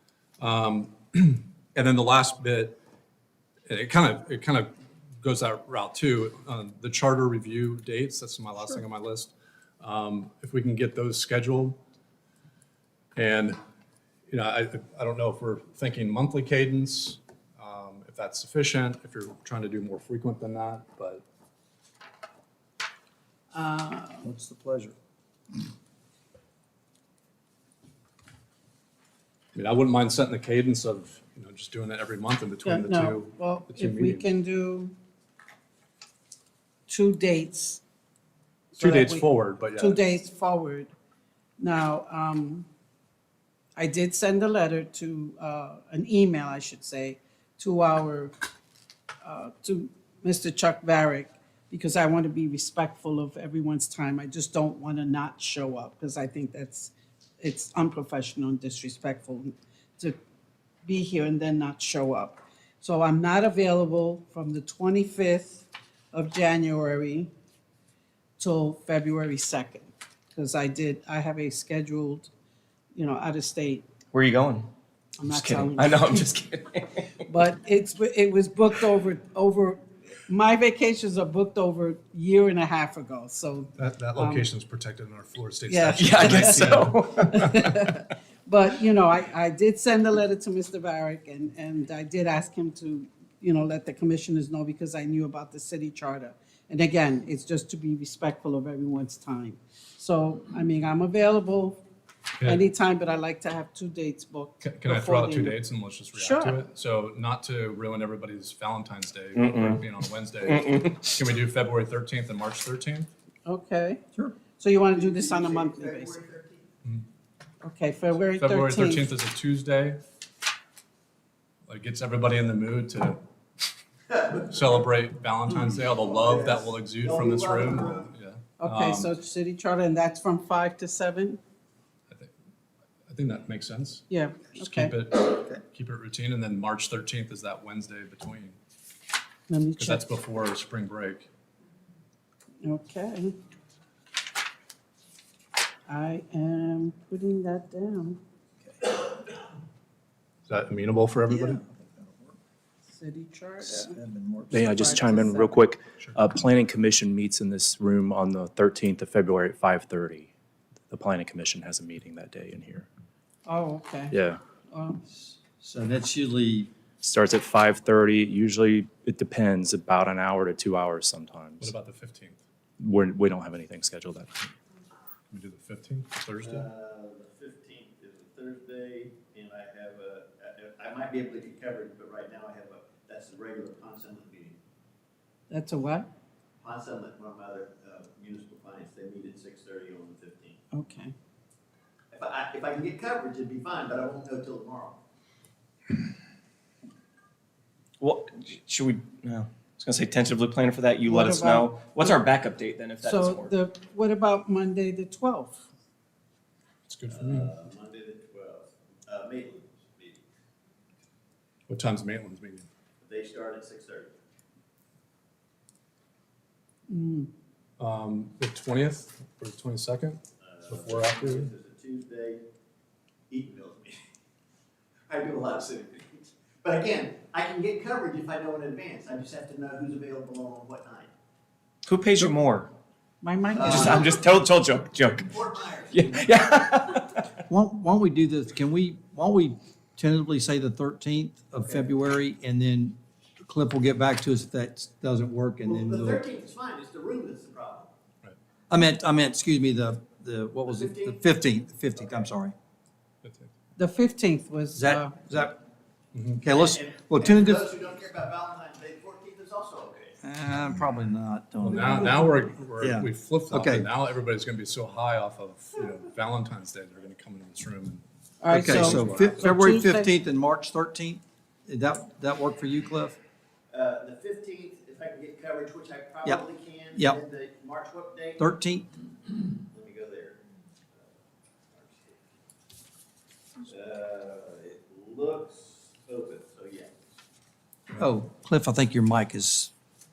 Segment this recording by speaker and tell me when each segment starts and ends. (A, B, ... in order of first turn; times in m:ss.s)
0:00.4-0:02.8 A
0:03.7-0:11.8 A
0:13.2-0:13.6 A
0:14.3-0:21.2 A
0:23.5-0:24.3 B
0:24.2-0:25.0 C
0:29.6-0:34.3 A
0:32.6-0:35.0 B
0:36.9-0:37.8 B
0:38.7-0:40.9 B
0:38.8-0:40.0 A
0:41.6-0:42.7 B
0:43.8-0:48.4 B
0:49.2-1:00.2 B
1:00.8-1:07.3 B
1:08.4-1:12.3 B
1:12.9-1:13.9 B
1:14.1-1:14.7 D
1:15.2-1:16.2 B
1:15.3-1:17.1 D
1:17.3-1:24.5 B
1:23.8-1:27.9 A
1:25.7-1:41.8 B
1:26.0-1:27.5 D
1:42.4-1:45.6 B
1:44.6-1:53.1 A
1:46.1-1:46.6 B
1:49.4-1:49.8 D
1:50.5-1:51.0 D
1:53.4-1:54.0 B
1:54.6-1:56.2 B
1:54.8-1:56.6 E
1:57.6-1:59.1 B
1:58.2-2:00.0 A
2:01.7-2:03.2 A
2:04.1-2:04.4 E
2:04.5-2:09.1 A
2:05.8-2:08.1 E
2:08.6-2:11.4 B
2:13.1-2:18.6 A
2:14.1-2:15.0 B
2:19.5-2:20.0 B
2:19.8-2:21.3 A
2:22.6-2:23.4 B
2:25.9-2:28.2 B
2:30.5-2:31.6 A
2:31.3-2:32.4 C
2:32.9-2:33.9 B
2:33.6-2:35.3 C
2:34.5-2:40.3 F
2:34.7-2:35.5 B
2:40.9-2:42.9 F
2:43.4-2:44.2 B
2:44.1-2:44.4 F
2:44.7-2:45.0 B
2:45.1-2:46.7 C
2:47.0-2:51.7 F
2:51.6-2:52.4 A
2:52.8-2:54.5 F
2:55.3-2:56.7 A
2:56.4-3:04.6 E
3:05.5-3:06.1 B
3:06.6-3:10.6 E
3:10.7-3:11.2 B
3:12.1-3:15.0 E
3:18.0-3:23.5 D
3:21.1-3:22.1 B
3:23.0-3:25.7 B
3:26.9-3:27.5 A
3:27.1-3:30.2 E
3:31.7-3:32.7 A
3:33.0-3:34.1 E
3:36.9-3:37.3 B
3:37.8-3:41.5 A
3:40.4-3:42.4 E
3:43.3-3:44.0 E
3:45.1-3:51.1 E
3:51.8-3:52.7 D
3:53.2-3:54.0 B
3:53.5-3:54.4 E
3:53.6-3:57.4 D
3:55.0-3:56.4 E
3:57.5-4:06.2 C
4:05.6-4:07.9 E
4:08.7-4:12.5 C
4:10.6-4:11.2 E
4:12.0-4:12.2 E
4:13.2-4:13.5 A
4:13.8-4:15.3 B
4:14.8-4:15.6 C
4:16.1-4:16.4 A
4:16.4-4:17.6 C
4:16.5-4:20.2 E
4:20.2-4:22.2 C
4:21.6-4:29.7 A
4:22.8-4:23.9 C
4:28.4-4:30.1 B
4:28.5-4:33.2 C
4:33.7-4:38.5 E
4:37.0-4:37.2 C
4:38.4-4:38.9 C
4:39.7-4:40.4 E
4:41.7-4:42.4 E
4:43.7-4:46.9 E
4:48.0-4:49.7 C